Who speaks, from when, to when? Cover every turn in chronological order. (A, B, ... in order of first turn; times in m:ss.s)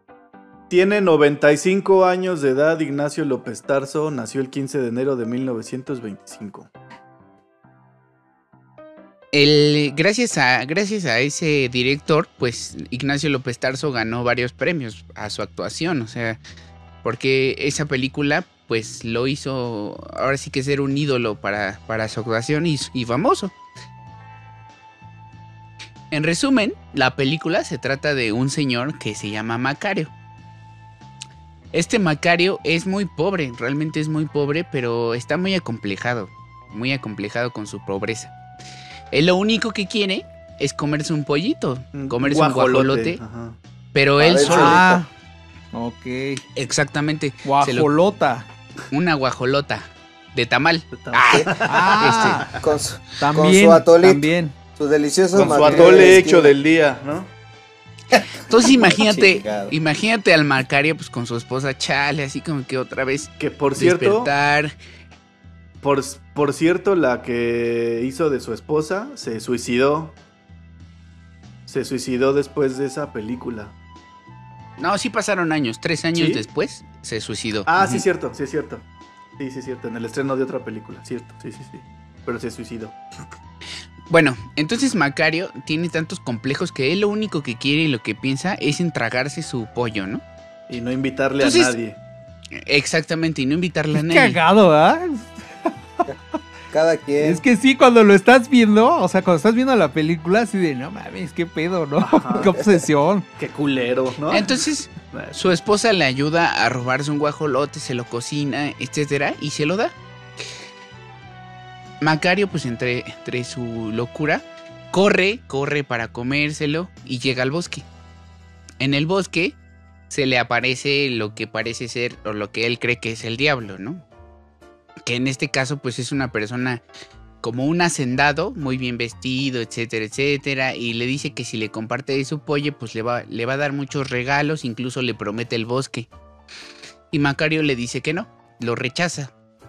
0:00.7-0:06.7 A
0:09.3-0:16.4 B
0:17.0-0:23.5 B
0:26.1-0:30.1 B
0:31.7-0:38.3 B
0:39.1-0:43.2 B
0:41.9-0:43.6 A
0:43.9-0:44.8 B
0:44.2-0:45.0 C
0:44.4-0:45.1 D
0:45.7-0:46.4 D
0:46.6-0:47.9 B
0:47.4-0:48.5 D
0:48.9-0:52.5 B
0:50.9-0:52.6 A
0:51.7-0:52.5 D
0:52.5-0:56.5 C
0:53.2-0:54.6 D
0:55.4-0:57.3 A
0:58.5-1:04.7 B
0:58.5-0:59.7 C
1:03.4-1:04.3 A
1:05.8-1:10.2 A
1:11.7-1:13.7 A
1:14.8-1:18.0 B
1:16.2-1:16.4 A
1:17.7-1:18.8 A
1:19.4-1:23.0 A
1:24.1-1:30.2 B
1:30.7-1:32.0 A
1:31.4-1:31.8 B
1:32.6-1:34.4 B
1:33.9-1:36.1 D
1:36.7-1:37.4 C
1:37.2-1:43.3 D
1:42.2-1:42.5 A
1:43.4-1:45.4 A
1:44.3-1:49.9 B
1:52.0-1:57.8 B
1:58.8-1:59.6 B
2:00.1-2:04.0 B
2:05.1-2:06.8 B
2:07.4-2:16.1 B
2:17.1-2:19.3 B